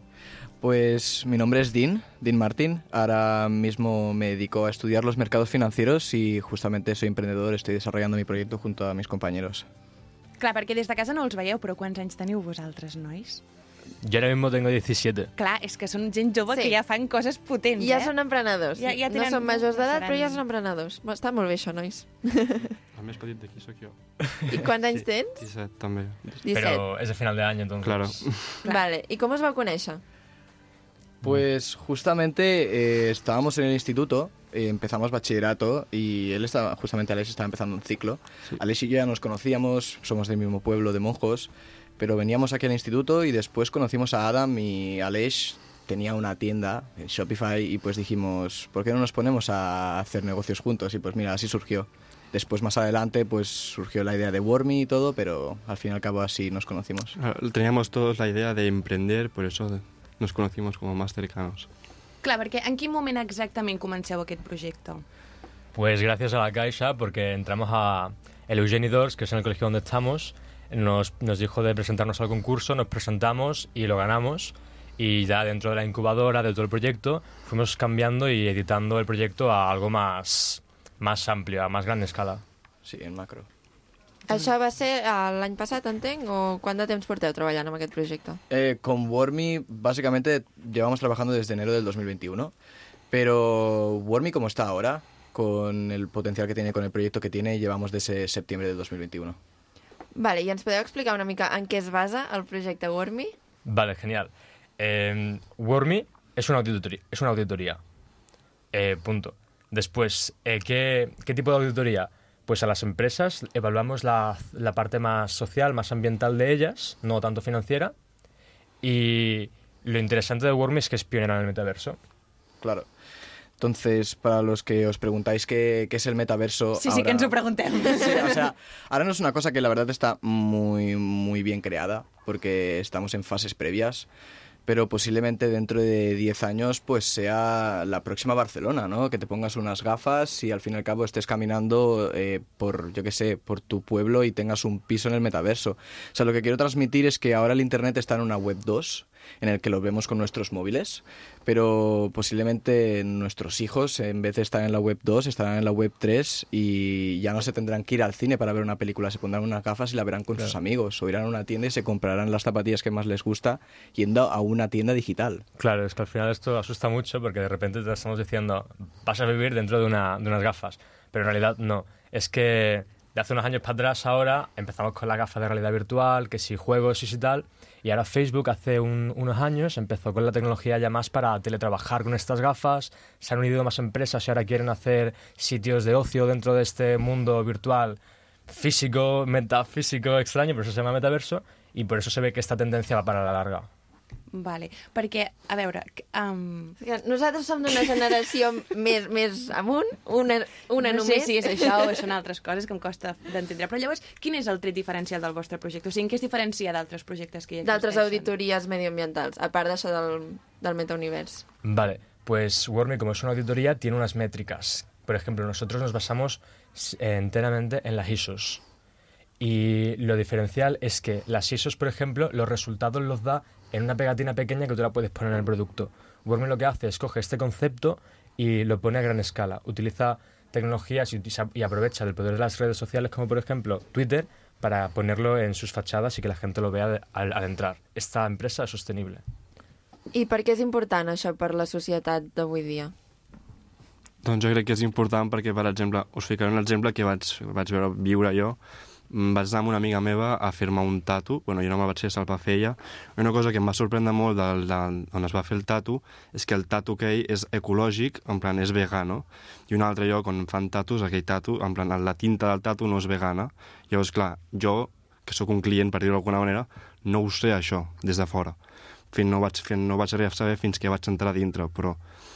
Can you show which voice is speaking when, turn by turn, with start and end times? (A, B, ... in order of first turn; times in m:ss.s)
0:00.6-0:09.6 A
0:10.4-0:13.4 B
0:14.0-0:15.3 C
0:15.4-0:18.1 B
0:16.5-0:16.8 D
0:17.8-0:22.8 D
0:18.8-0:20.4 B
0:22.9-0:24.0 E
0:24.5-0:25.4 D
0:24.9-0:26.4 E
0:26.4-0:26.8 D
0:26.5-0:28.2 C
0:27.8-0:28.6 E
0:28.6-0:30.0 D
0:31.2-0:57.1 A
0:57.2-1:01.7 E
1:02.2-1:05.0 B
1:05.7-1:22.4 C
1:22.8-1:23.5 A
1:24.3-1:28.4 D
1:28.5-1:32.5 A
1:33.1-1:39.4 A
1:40.1-1:43.3 D
1:43.6-1:47.8 C
1:48.7-1:57.9 C
1:58.8-2:02.0 C
2:03.6-2:14.1 A
2:06.8-2:08.4 B
2:14.7-2:45.4 A
2:45.6-3:08.0 C
3:08.5-3:13.7 C
3:14.3-3:16.8 B
3:16.8-3:21.9 D
3:20.8-3:28.3 B
3:27.6-3:31.4 D
3:31.6-3:38.6 C
3:39.4-3:59.2 C
4:00.1-4:02.9 D
4:04.2-4:08.6 E
4:09.1-4:28.6 E
4:29.1-4:32.0 E